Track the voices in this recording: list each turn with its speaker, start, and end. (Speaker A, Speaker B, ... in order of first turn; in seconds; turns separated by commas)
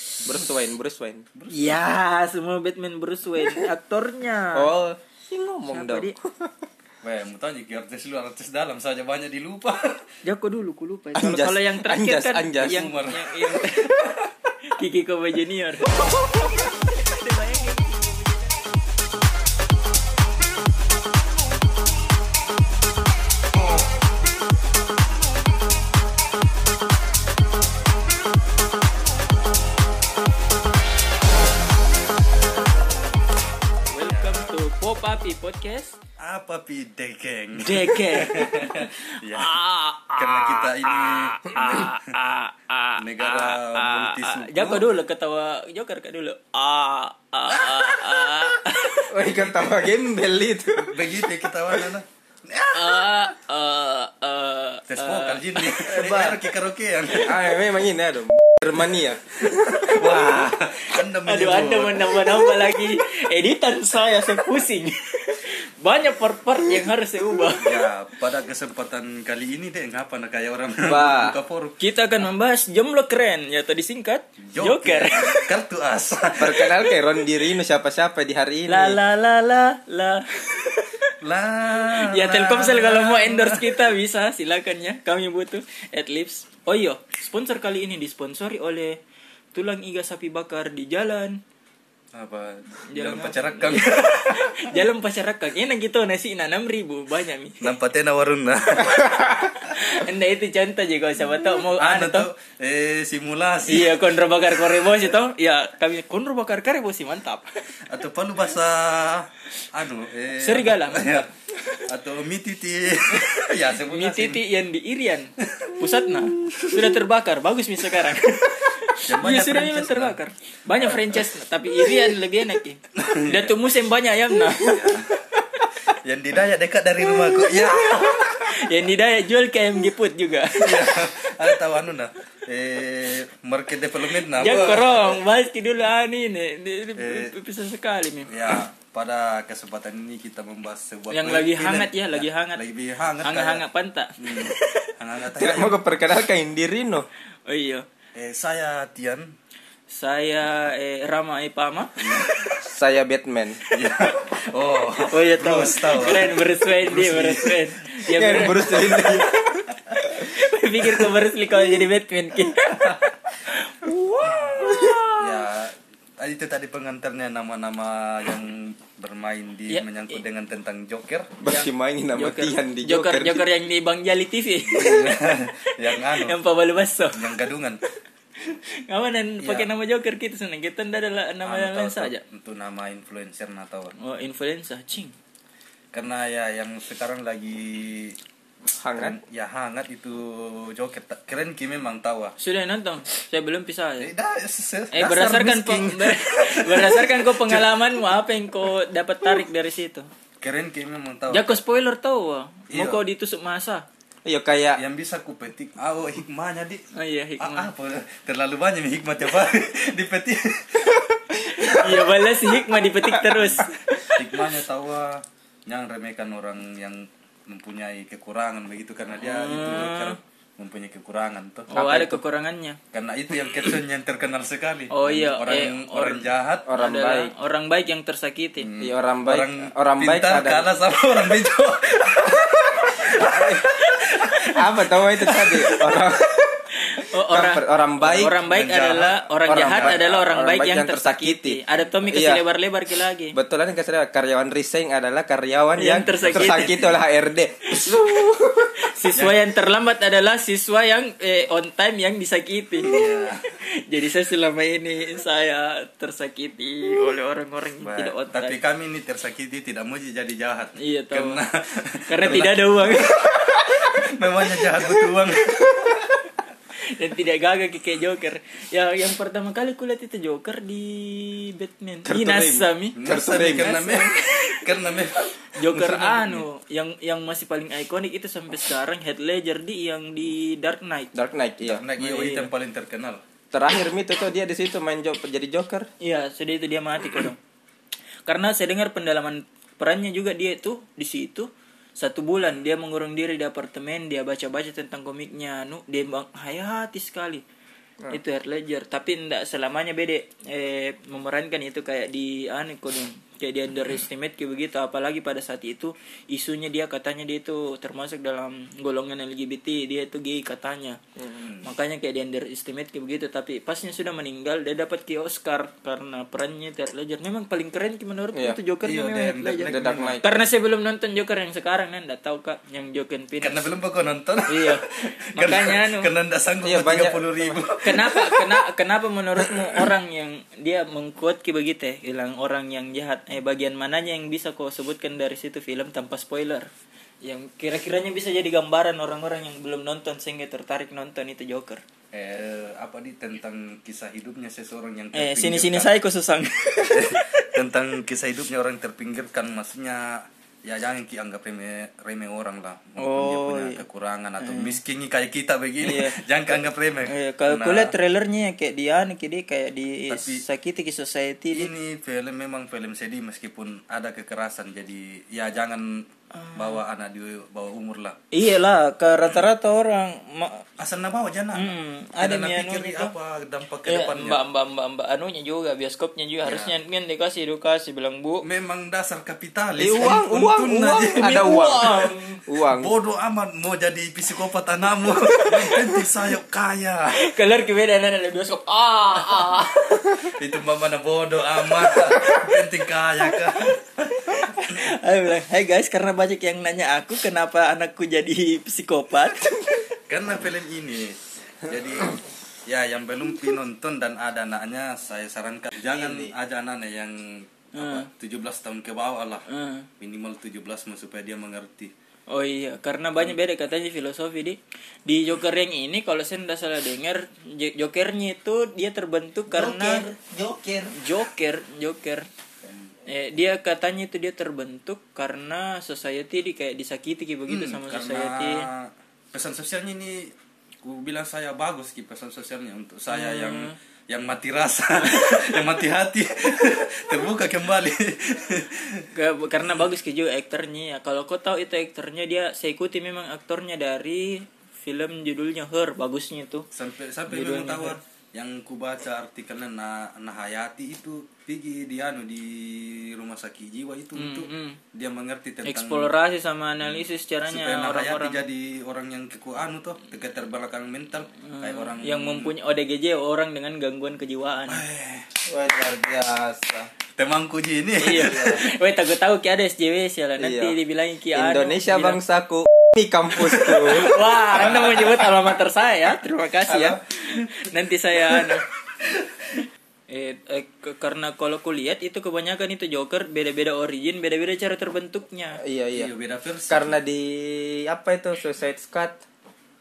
Speaker A: 0.2-1.3, Speaker B: 0.3-0.6, Speaker B: 1.4-1.8, Speaker C: 1.5-4.7, Speaker A: 4.5-6.5, Speaker C: 5.7-6.2, Speaker B: 7.0-10.1, Speaker C: 10.2-18.8, Speaker A: 11.1-12.9, Speaker B: 12.5-13.8, Speaker C: 33.9-36.0, Speaker B: 34.1-34.5, Speaker B: 36.2-39.6, Speaker C: 37.6-49.1, Speaker B: 40.1-42.1, Speaker B: 43.0-44.9, Speaker B: 47.5-48.6, Speaker A: 49.1-51.5, Speaker B: 49.3-49.7, Speaker B: 50.8-53.3, Speaker C: 52.7-55.9, Speaker B: 54.9-57.6, Speaker A: 55.8-56.4, Speaker A: 57.1-60.2, Speaker B: 58.9-62.3, Speaker C: 59.8-60.5, Speaker C: 61.2-67.8, Speaker B: 67.6-71.8, Speaker A: 70.8-71.4, Speaker C: 71.8-75.5, Speaker B: 74.5-77.0, Speaker A: 76.4-79.0, Speaker C: 78.7-81.1, Speaker B: 81.2-83.8, Speaker C: 81.8-89.0, Speaker C: 89.5-91.4, Speaker B: 92.1-94.8, Speaker C: 92.9-97.7, Speaker B: 97.6-99.5, Speaker C: 99.2-102.3, Speaker B: 101.8-104.1, Speaker C: 103.7-107.5, Speaker B: 107.9-111.3, Speaker C: 110.4-111.8, Speaker B: 111.9-114.5, Speaker C: 113.1-125.7, Speaker B: 115.5-116.5, Speaker B: 119.0-120.2, Speaker B: 120.7-121.3, Speaker B: 123.0-123.6, Speaker B: 124.5-125.3, Speaker B: 125.9-128.8, Speaker C: 127.0-131.3, Speaker B: 130.5-135.2, Speaker C: 134.1-138.6, Speaker B: 137.0-137.3, Speaker B: 138.3-143.7, Speaker C: 141.1-142.6, Speaker C: 143.2-144.9, Speaker B: 144.2-145.8, Speaker A: 145.3-147.1, Speaker C: 147.5-147.9, Speaker B: 148.2-149.3, Speaker C: 149.9-152.1, Speaker B: 152.0-152.7, Speaker A: 152.6-153.7, Speaker B: 153.7-157.7, Speaker C: 155.1-159.1, Speaker A: 158.1-159.7, Speaker B: 158.3-159.2, Speaker C: 160.1-165.4, Speaker A: 160.8-161.2, Speaker B: 162.6-163.1, Speaker A: 164.0-165.0, Speaker B: 164.2-171.4, Speaker C: 169.7-170.2, Speaker A: 171.4-173.4, Speaker C: 171.4-177.4, Speaker B: 174.7-176.4, Speaker B: 177.1-177.8, Speaker C: 178.4-182.2, Speaker B: 179.4-179.7, Speaker B: 181.4-183.9, Speaker C: 184.0-185.1, Speaker B: 185.9-188.2, Speaker A: 188.7-189.2, Speaker B: 189.0-192.3, Speaker C: 192.4-194.1, Speaker B: 194.0-197.8, Speaker C: 194.9-200.1, Speaker B: 200.4-201.6, Speaker C: 201.3-203.8, Speaker B: 202.7-203.0, Speaker A: 204.2-204.8, Speaker B: 204.8-206.8, Speaker C: 206.9-207.7, Speaker B: 207.4-212.3, Speaker C: 211.3-214.6, Speaker A: 213.0-213.4, Speaker B: 213.2-221.7, Speaker C: 219.2-220.2, Speaker C: 221.7-222.8, Speaker A: 221.7-222.2, Speaker B: 222.9-226.7, Speaker C: 224.9-228.7, Speaker A: 226.7-227.3, Speaker B: 228.6-234.7, Speaker A: 228.8-230.7, Speaker A: 233.1-233.8, Speaker C: 233.9-234.3, Speaker A: 234.5-236.7, Speaker B: 235.2-236.1, Speaker C: 236.8-243.3, Speaker A: 237.3-238.4, Speaker B: 238.0-240.1, Speaker A: 239.5-242.4, Speaker A: 243.3-248.8, Speaker C: 245.8-246.8, Speaker B: 246.1-247.0, Speaker C: 247.7-258.6, Speaker B: 252.8-253.4, Speaker B: 257.8-266.0, Speaker C: 260.8-261.4, Speaker C: 262.1-263.1, Speaker A: 263.4-263.7, Speaker C: 266.9-274.7, Speaker A: 272.1-273.8, Speaker B: 273.0-276.5, Speaker C: 275.5-281.1, Speaker A: 281.1-281.8, Speaker B: 281.6-283.2, Speaker C: 282.0-282.5, Speaker A: 283.5-285.9, Speaker C: 286.0-287.4, Speaker C: 288.3-297.4, Speaker C: 298.1-311.0, Speaker B: 311.3-311.7, Speaker C: 311.6-323.6, Speaker A: 318.3-318.6, Speaker B: 318.8-320.2, Speaker A: 319.6-320.3, Speaker B: 323.4-328.6, Speaker C: 324.5-326.1, Speaker A: 326.6-327.6, Speaker C: 327.8-336.7, Speaker C: 337.2-341.8, Speaker B: 342.1-346.0, Speaker C: 345.1-347.6, Speaker B: 346.8-357.9, Speaker C: 353.0-353.8, Speaker C: 354.4-354.8, Speaker C: 355.8-356.2, Speaker C: 357.1-361.7, Speaker B: 360.1-360.4, Speaker B: 361.5-368.2, Speaker C: 366.3-366.8, Speaker C: 368.3-370.7, Speaker B: 370.8-374.4, Speaker C: 371.5-373.1, Speaker C: 373.9-378.4, Speaker B: 376.4-376.8, Speaker B: 378.4-381.4, Speaker A: 379.8-382.9, Speaker C: 381.1-382.4, Speaker B: 382.6-387.3, Speaker C: 385.1-386.0, Speaker C: 387.1-390.3, Speaker B: 389.4-394.2, Speaker C: 391.9-392.6, Speaker C: 394.1-399.9, Speaker B: 400.1-409.5, Speaker A: 405.9-406.3, Speaker C: 407.8-408.1, Speaker C: 409.5-409.9, Speaker B: 410.0-411.9, Speaker C: 412.3-420.1, Speaker A: 419.5-421.0, Speaker C: 420.9-422.3, Speaker C: 423.1-428.7, Speaker B: 427.5-439.1, Speaker C: 433.1-433.8, Speaker C: 439.1-446.7, Speaker B: 446.7-456.1, Speaker C: 447.3-448.0, Speaker C: 454.1-454.8, Speaker C: 455.6-458.4, Speaker B: 456.9-462.5, Speaker C: 461.5-464.8, Speaker B: 464.7-468.7, Speaker C: 468.0-472.2, Speaker A: 470.4-470.8, Speaker A: 471.3-474.3, Speaker B: 473.4-475.3, Speaker C: 473.7-478.6, Speaker B: 476.7-477.4, Speaker B: 479.0-479.6, Speaker C: 480.1-485.6, Speaker A: 485.6-486.1, Speaker B: 485.9-487.0, Speaker A: 486.7-489.2